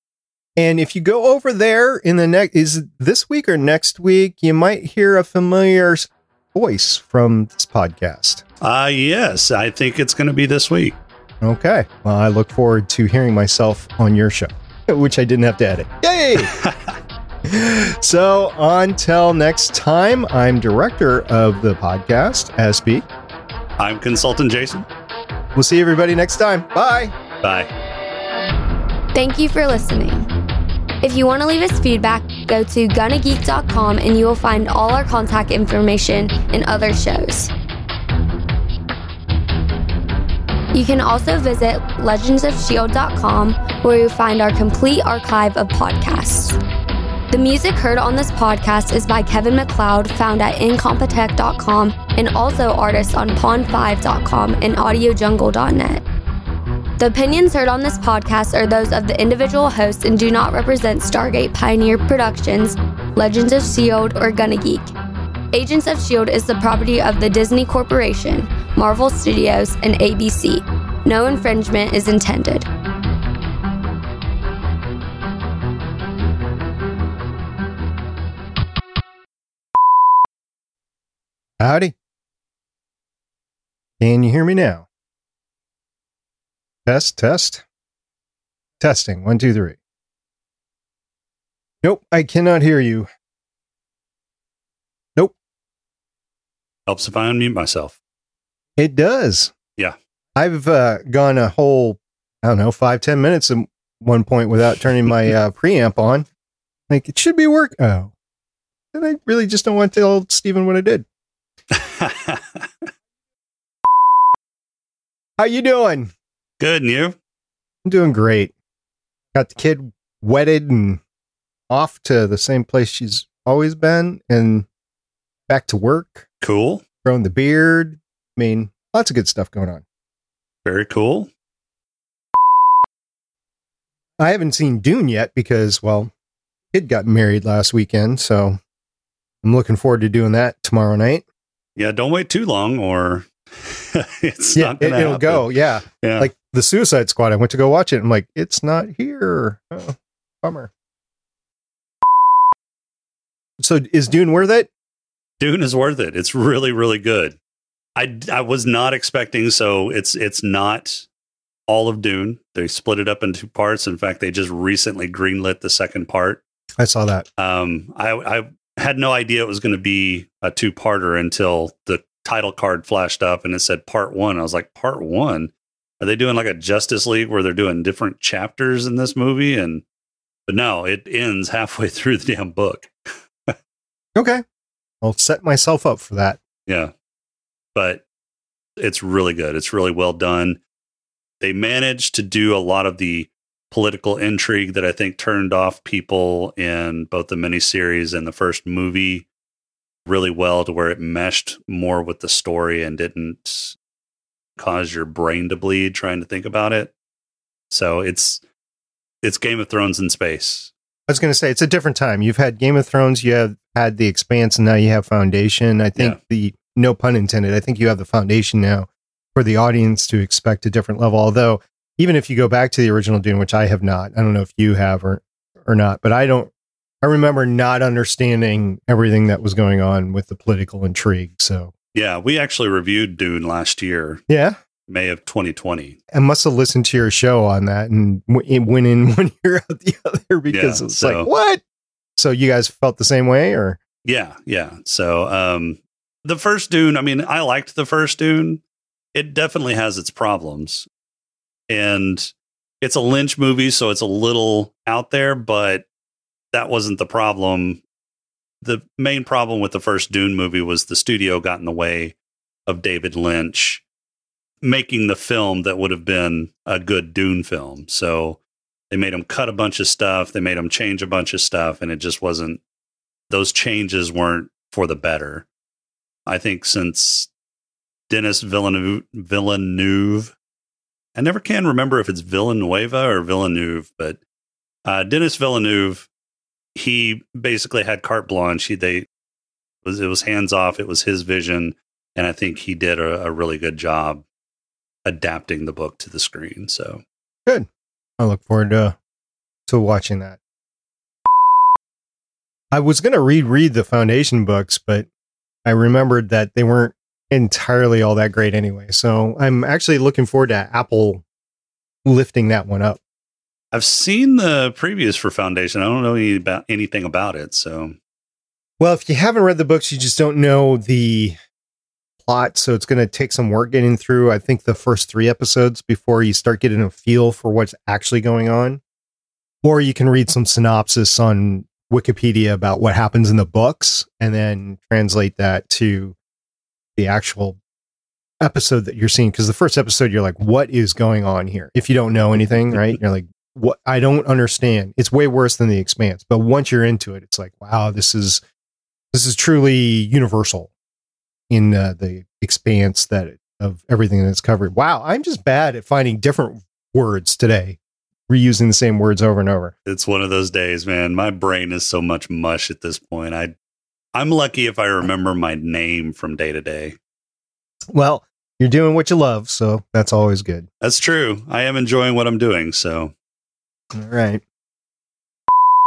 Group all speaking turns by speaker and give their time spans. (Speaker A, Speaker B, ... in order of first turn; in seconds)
Speaker A: 0.6-8.4, 11.4-16.6, 17.5-23.1, 25.6-27.1, 81.6-81.9, 84.0-84.9, 86.9-87.6, 88.8-89.8, 91.8-93.1, 98.8-99.5, 100.4-106.3, 106.9-108.1, 108.9-111.0, 115.4-116.1, 117.9-118.5, 119.3-121.0, 121.7-124.7, 125.5-126.3, 127.0-129.8, 134.2-136.1, 136.7-138.6, 139.4-141.2, 144.6-150.7, 153.6-154.7, 166.8-167.2, 184.2-184.4, 185.0-186.4, 211.1-226.5, 227.0-231.7, 234.3-234.6, 236.1-241.6, 242.2-243.8, 298.2-299.0, 299.7-300.4, 302.7-305.1, 305.6-311.2, 312.1-313.0, 318.8-321.4, 322.2-328.8, 329.6-336.1, 337.0-337.6, 338.4-348.4, 349.1-350.7, 351.5-357.8, 358.3-359.7, 367.9-370.7, 373.9-374.4
Speaker B: 8.6-11.0, 16.4-16.9, 23.8-24.9, 27.4-27.7, 96.9-98.0, 111.7-112.9, 116.6-117.2, 126.4-126.8, 130.7-131.3, 141.8-146.3, 155.4-157.4, 158.0-161.1, 161.7-166.4, 167.4-179.8, 180.5-183.6, 186.7-186.9, 187.8-188.0, 188.8-190.6, 191.4-199.3, 200.1-203.8, 204.6-206.9, 207.7-208.4, 209.2-210.7, 231.9-234.2, 234.9-236.0, 240.5-241.3, 244.1-248.6, 249.1-250.9, 251.7-255.9, 256.5-257.8, 258.6-263.8, 264.6-268.4, 268.9-272.6, 273.3-275.5, 276.3-277.3, 278.1-280.4, 281.2-284.2, 284.9-286.1, 286.8-289.1, 289.8-294.2, 295.1-297.0, 313.7-318.0, 359.9-363.5, 364.1-367.0, 370.8-373.1
Speaker C: 29.1-30.3, 31.0-37.5, 40.7-46.6, 47.3-56.0, 57.0-64.9, 65.5-72.7